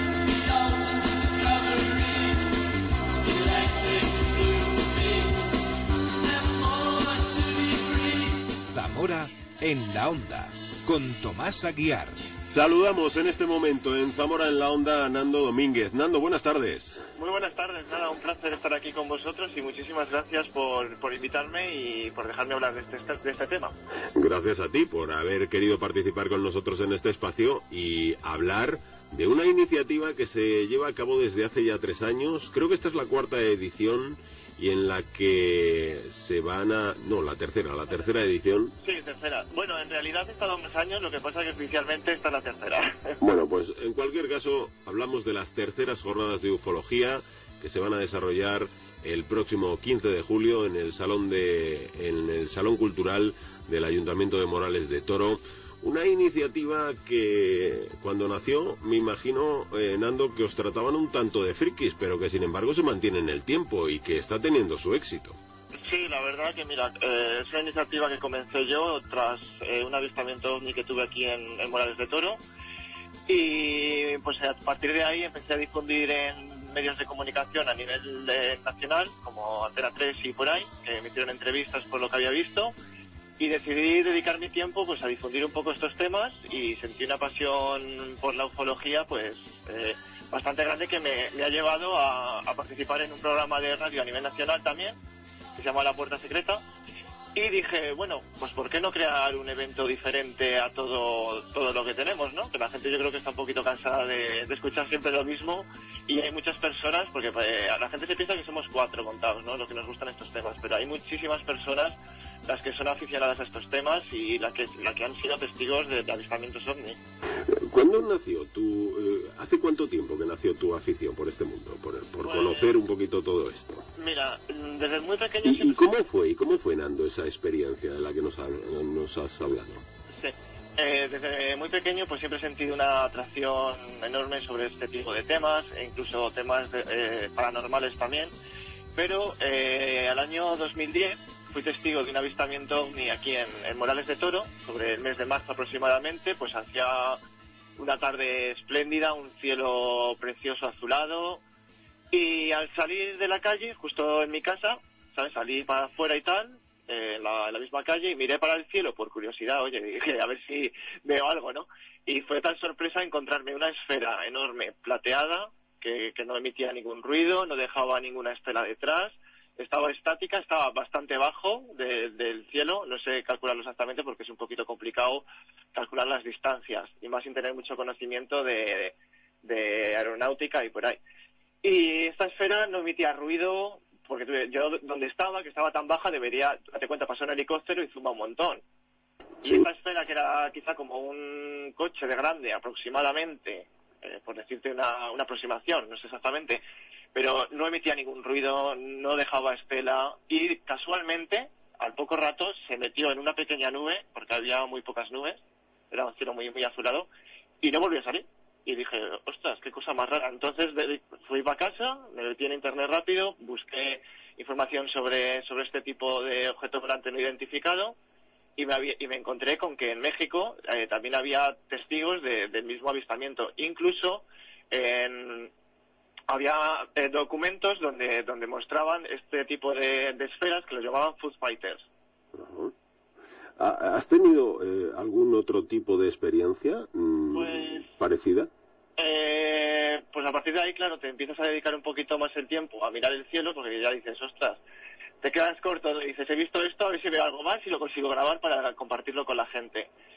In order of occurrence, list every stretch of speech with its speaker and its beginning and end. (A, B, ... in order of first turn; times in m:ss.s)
0:00.5-0:02.5 A
0:03.3-0:05.4 A
0:06.6-0:12.2 A
0:12.4-0:17.0 B
0:17.2-0:23.7 C
0:24.1-0:38.7 B
0:38.8-0:43.2 C
0:43.2-1:05.4 B
1:05.8-1:12.4 C
1:13.3-1:22.7 C
1:23.4-1:35.0 C
1:35.6-1:36.6 C
1:37.4-1:57.0 C
1:57.4-2:03.8 B
2:02.2-2:02.8 C
2:04.0-2:05.9 C
2:05.4-2:09.8 B
2:10.2-2:18.3 C
2:19.0-2:27.2 C
2:27.8-2:31.4 C
2:32.1-3:01.0 C
3:01.6-3:08.6 C
3:09.4-3:16.6 C
3:17.2-3:27.1 C
3:27.6-3:38.0 C
3:38.6-3:45.5 C
3:46.3-3:51.9 C
3:52.3-3:52.7 B
3:53.6-3:58.5 B
3:57.3-3:57.9 C
3:59.0-4:04.6 C
4:05.2-4:09.9 C